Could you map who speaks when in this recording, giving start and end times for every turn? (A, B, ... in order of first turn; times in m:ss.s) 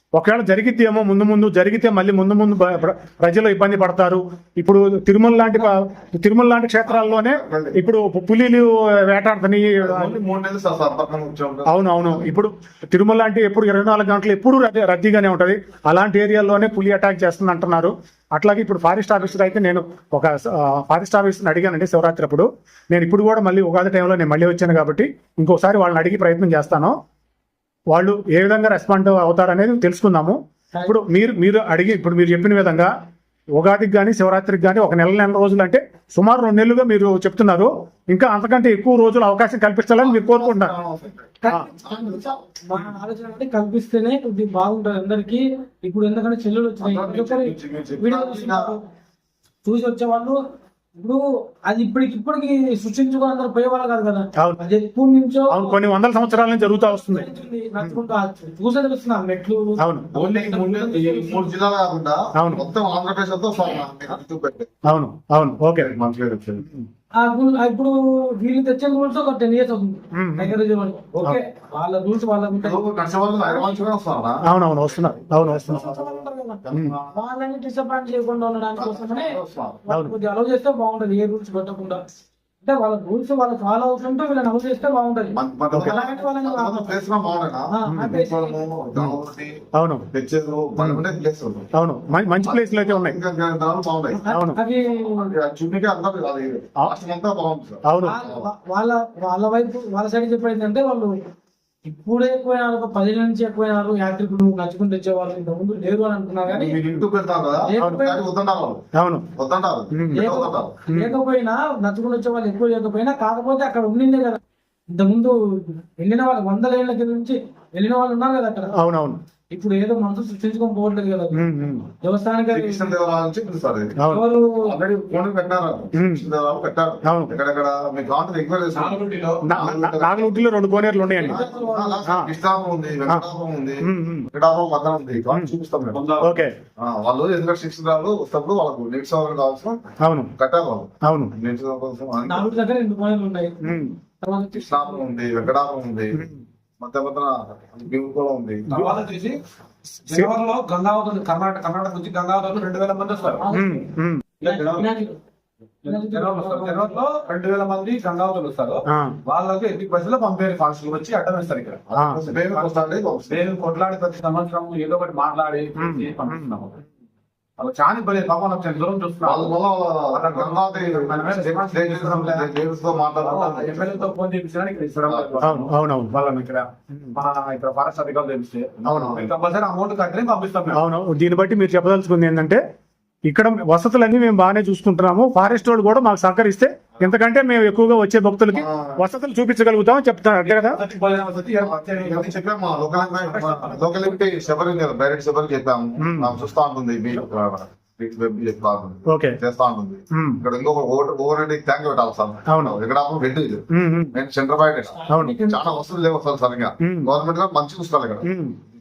0:00.1-0:10.2 A
0:06.9-0:07.8 B
0:09.8-0:12.2 B
0:11.7-0:26.9 A
0:27.9-0:32.9 A
0:30.7-0:31.2 C
0:33.6-0:40.7 A
0:40.0-0:42.4 B
0:41.4-0:48.8 C
0:46.8-0:48.7 B
0:49.6-0:50.4 C
0:51.0-1:01.5 C
0:55.5-0:57.3 A
0:59.8-1:00.1 A
1:00.1-1:04.8 B
1:02.4-1:02.6 A
1:04.8-1:05.9 A
1:05.7-1:06.6 B
1:06.6-1:06.9 A
1:07.2-1:13.8 C
1:10.1-1:10.6 A
1:12.6-1:17.1 B
1:14.4-1:15.9 A
1:15.7-1:22.0 C
1:18.8-1:19.8 B
1:19.9-1:20.1 A
1:22.6-1:27.0 C
1:25.4-1:31.7 B
1:27.7-1:28.6 C
1:27.9-1:28.2 A
1:29.7-1:30.1 A
1:30.8-1:31.0 A
1:31.7-1:33.2 A
1:32.4-1:34.2 B
1:34.2-1:35.3 C
1:34.2-1:34.6 A
1:34.9-1:38.5 B
1:37.8-1:38.2 A
1:38.0-1:41.1 C
1:41.8-1:46.8 C
1:46.5-1:50.8 B
1:47.6-1:48.2 C
1:48.9-1:49.3 A
1:49.9-1:50.3 A
1:50.1-1:54.4 C
1:50.9-1:51.1 A
1:54.9-1:58.8 C
1:58.7-1:59.2 A
1:59.5-2:01.4 C
2:01.3-2:01.9 A
2:02.0-2:02.9 C
2:02.5-2:04.0 B
2:04.0-2:04.2 A
2:04.1-2:04.7 C
2:04.6-2:10.4 B
2:05.9-2:06.3 A
2:07.0-2:07.4 A
2:08.7-2:09.5 D
2:09.4-2:11.4 A
2:11.1-2:12.1 C
2:11.2-2:16.0 B
2:13.8-2:14.3 A
2:15.9-2:16.4 D
2:16.2-2:16.5 A
2:16.8-2:19.8 B
2:20.0-2:20.3 A
2:20.4-2:22.5 B
2:21.0-2:21.3 A
2:22.3-2:23.6 C
2:23.6-2:23.9 A
2:24.2-2:25.0 C
2:24.5-2:26.2 B
2:26.1-2:26.4 A
2:26.8-2:28.8 B
2:28.7-2:29.4 D
2:30.1-2:33.4 D
2:33.4-2:33.9 C
2:33.5-2:34.2 A
2:34.4-2:34.9 D
2:34.4-2:35.2 C
2:35.8-2:46.8 D
2:35.8-2:37.0 C
2:38.9-2:39.2 A
2:41.9-2:43.4 B
2:45.8-2:46.4 A
2:47.6-2:52.6 D
2:49.2-2:54.1 B
2:53.2-3:00.8 D
2:55.0-2:55.4 B
2:55.4-2:56.1 A
2:58.8-2:59.3 B
2:58.9-2:59.2 A
3:00.7-3:02.6 A
3:03.2-3:10.8 A
3:08.5-3:09.0 B
3:10.5-3:12.5 D
3:11.6-3:28.2 B
3:13.2-3:14.2 D
3:16.0-3:16.4 A
3:19.1-3:19.4 A
3:20.1-3:20.4 A
3:22.5-3:22.8 A
3:23.7-3:24.2 A
3:25.0-3:25.8 C
3:25.1-3:25.4 A
3:26.8-3:27.1 A
3:28.2-3:28.6 A